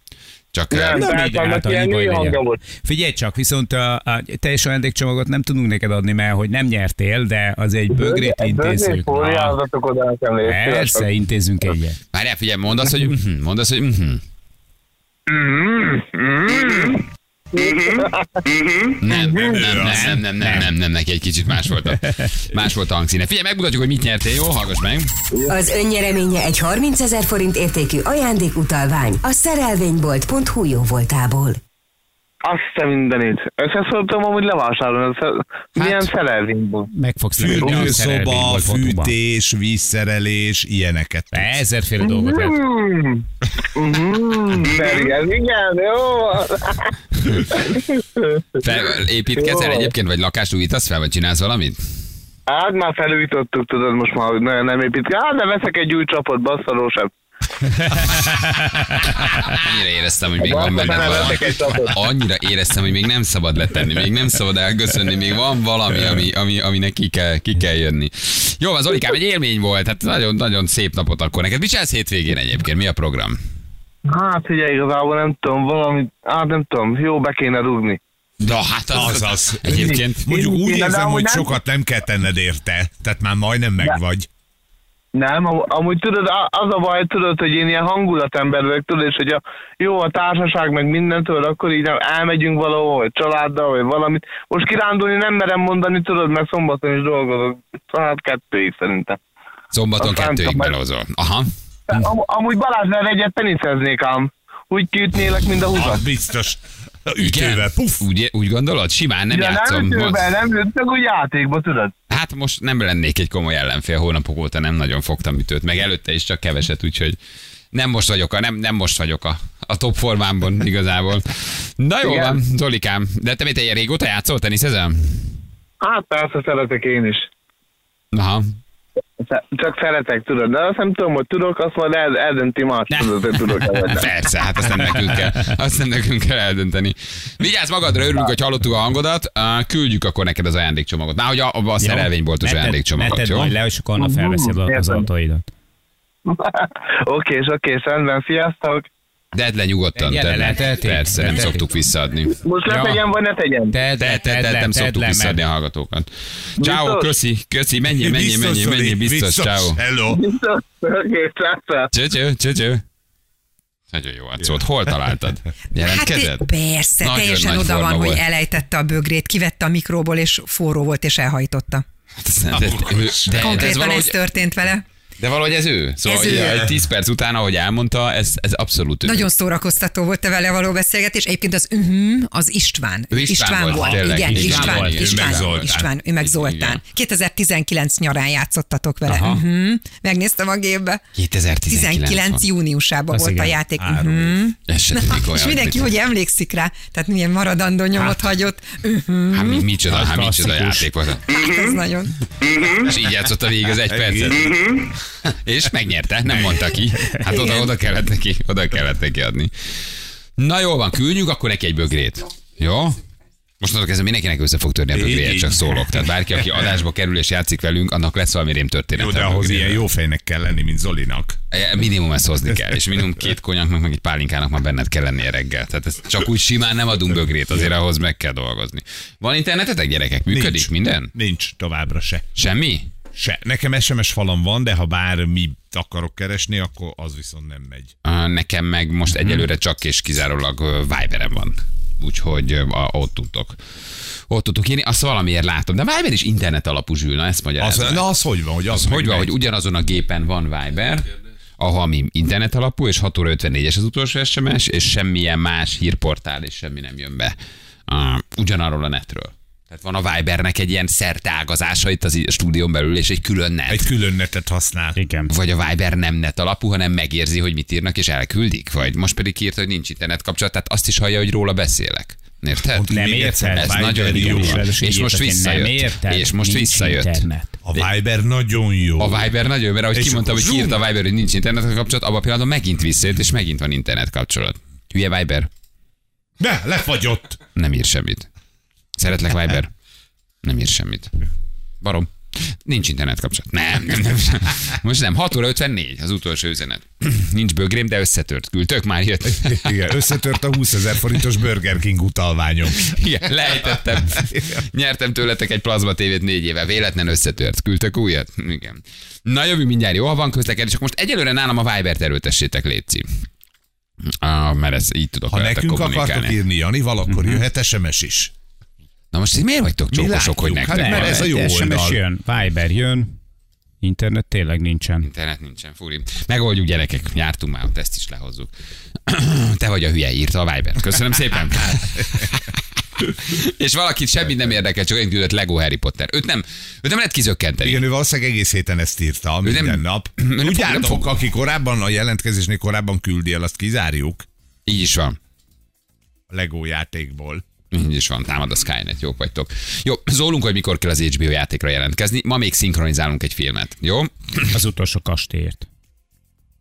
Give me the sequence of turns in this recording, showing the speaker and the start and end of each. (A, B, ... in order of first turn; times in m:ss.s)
0:00.5-0:01.1 A
0:00.7-0:02.6 B
0:00.9-0:09.6 C
0:07.9-0:11.1 B
0:10.4-0:12.0 C
0:12.1-0:14.2 A
0:15.3-0:19.6 B
0:17.6-0:17.9 A
0:19.0-0:25.1 A
0:19.5-0:20.2 D
0:19.7-0:20.7 C
0:22.0-0:22.3 C
0:25.5-0:31.6 E
0:32.4-0:36.9 B
0:36.9-0:39.2 C
0:37.4-0:41.6 D
0:37.6-0:37.9 B
0:41.3-0:42.6 C
0:42.0-0:48.6 B
0:48.6-0:51.8 A
0:49.4-0:49.9 B
0:52.5-0:57.1 B
0:57.8-0:59.6 C
0:59.4-1:13.4 A
1:00.4-1:01.9 B
1:14.0-1:18.0 B
1:18.4-1:20.3 A
1:18.9-1:24.3 D
1:19.7-1:21.5 B
1:25.1-1:39.2 B
1:39.7-1:42.1 A
1:40.0-1:40.7 B
1:41.9-1:46.0 B
1:45.7-1:48.0 D
1:47.2-1:50.3 A
1:49.3-1:51.9 B
1:52.1-1:57.2 A
1:57.7-2:05.3 A
2:02.0-2:02.4 B
2:05.8-2:07.3 B
2:08.1-2:08.4 A
2:09.3-2:14.1 B
2:13.9-2:23.5 A
2:15.2-2:15.4 C
2:21.8-2:25.5 C
2:24.0-2:25.0 B
2:26.2-2:28.8 B
2:29.3-2:32.4 A
2:30.0-2:31.7 C
2:32.4-2:33.7 B
2:32.6-2:33.0 C
2:33.7-2:35.4 C
2:34.0-2:39.8 A
2:36.6-2:37.1 B
2:37.9-2:40.2 D
2:40.1-2:41.9 B
2:41.9-2:42.8 A
2:43.9-2:46.5 A
2:44.4-2:44.9 D
2:45.8-2:51.8 F
2:47.0-2:48.2 A
2:52.2-2:54.2 A
2:52.5-2:53.7 D
2:53.3-2:54.8 F
2:55.2-2:59.3 A
2:56.0-2:56.7 F
2:59.0-3:11.0 F
3:03.1-3:05.7 A
3:03.8-3:05.1 C
3:04.3-3:05.9 D
3:06.2-3:06.8 A
3:09.0-3:09.4 C
3:11.2-3:12.5 A
3:11.6-3:19.7 F
3:13.1-3:13.6 C
3:13.8-3:14.4 D
3:14.7-3:16.0 A
3:19.3-3:21.5 A
3:19.8-3:20.9 C
3:21.3-3:22.1 F
3:22.4-3:22.8 B
3:22.6-3:24.6 A
3:23.8-3:24.8 D
3:25.2-3:29.5 A
3:26.3-3:26.7 D
3:27.2-3:27.7 F
3:30.4-3:33.0 A
3:33.6-3:39.8 A
3:34.9-3:36.4 D
3:38.9-3:41.4 D
3:41.5-3:51.1 A
3:50.3-3:52.3 D
3:52.4-3:52.9 A
3:53.1-3:57.9 D
3:58.0-4:03.6 A
4:04.3-4:08.0 A
4:07.6-4:09.3 D
4:08.7-4:17.4 A
4:17.9-4:23.9 A
4:23.7-4:25.0 D
4:25.0-4:25.3 C
4:25.3-4:32.8 A
4:32.7-4:34.6 D
4:32.9-4:37.5 C
4:33.5-4:37.2 A
4:37.6-4:39.3 D
4:39.0-4:45.5 A
4:39.9-4:40.8 D
4:46.4-4:47.4 D
4:47.5-4:48.3 A
4:49.0-4:49.7 A
4:50.4-4:51.1 A
4:51.8-4:59.9 A
4:59.2-5:03.0 D
5:02.8-5:13.1 A
5:04.1-5:04.6 D
5:14.0-5:16.4 A
5:15.3-5:18.3 D
5:17.1-5:17.4 C
5:19.1-5:21.2 A
5:19.9-5:22.0 D
5:20.7-5:23.2 C
5:23.8-5:25.1 C
5:25.0-5:28.5 A
5:29.1-5:37.8 A
5:32.0-5:32.3 D
5:37.6-5:44.2 D
5:39.4-5:41.2 A
5:44.6-5:45.2 A
5:46.3-5:47.4 D
5:47.7-5:54.5 A
5:54.5-5:55.7 C